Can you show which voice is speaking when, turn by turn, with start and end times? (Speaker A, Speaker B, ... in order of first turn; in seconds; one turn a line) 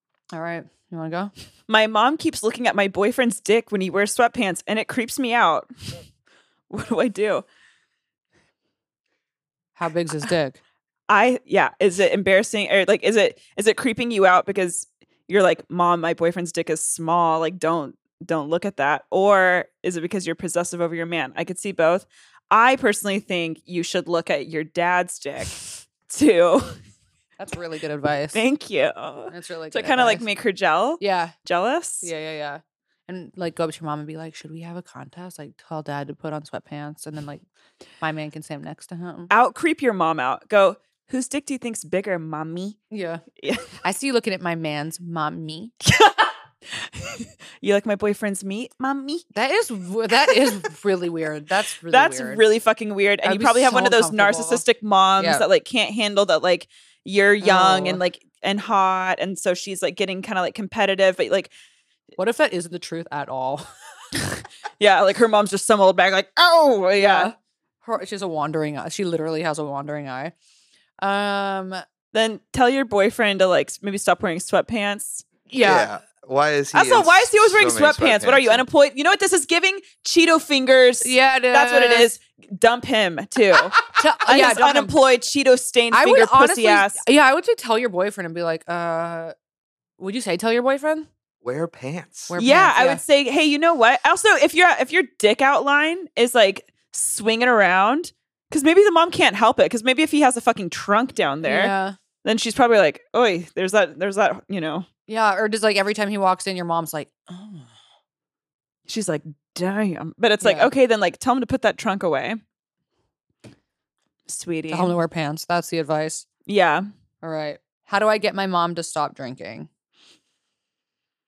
Speaker A: 0.3-1.3
Speaker B: 1.7-5.7
Speaker B: 6.7-7.4
Speaker A: 9.8-10.6
Speaker B: 11.1-26.8
Speaker A: 27.4-28.4
Speaker B: 28.3-32.1
Speaker A: 29.3-30.2
Speaker A: 31.0-31.3
Speaker A: 32.0-37.4
Speaker A: 38.0-39.3
Speaker B: 39.3-42.8
Speaker A: 42.9-43.2
Speaker B: 43.4-43.7
Speaker A: 43.8-45.7
Speaker B: 45.8-49.2
Speaker A: 49.3-52.4
Speaker B: 51.9-61.5
Speaker A: 53.2-54.6
Speaker A: 55.2-55.4
Speaker A: 57.4-58.0
Speaker A: 62.2-63.7
Speaker B: 64.8-67.3
Speaker A: 67.0-70.3
Speaker A: 71.0-71.8
Speaker B: 72.1-75.2
Speaker A: 75.5-75.9
Speaker C: 75.6-78.6
Speaker B: 76.7-87.0
Speaker A: 81.0-82.1
Speaker A: 84.0-85.0
Speaker A: 85.9-89.3
Speaker A: 90.0-91.1
Speaker C: 91.4-92.3
Speaker A: 92.3-93.0
Speaker B: 92.4-104.8
Speaker A: 101.4-102.0
Speaker A: 105.1-107.7
Speaker B: 108.9-112.4
Speaker A: 110.4-110.7
Speaker B: 114.3-114.9
Speaker A: 114.7-116.2
Speaker B: 116.5-116.8
Speaker A: 117.2-119.7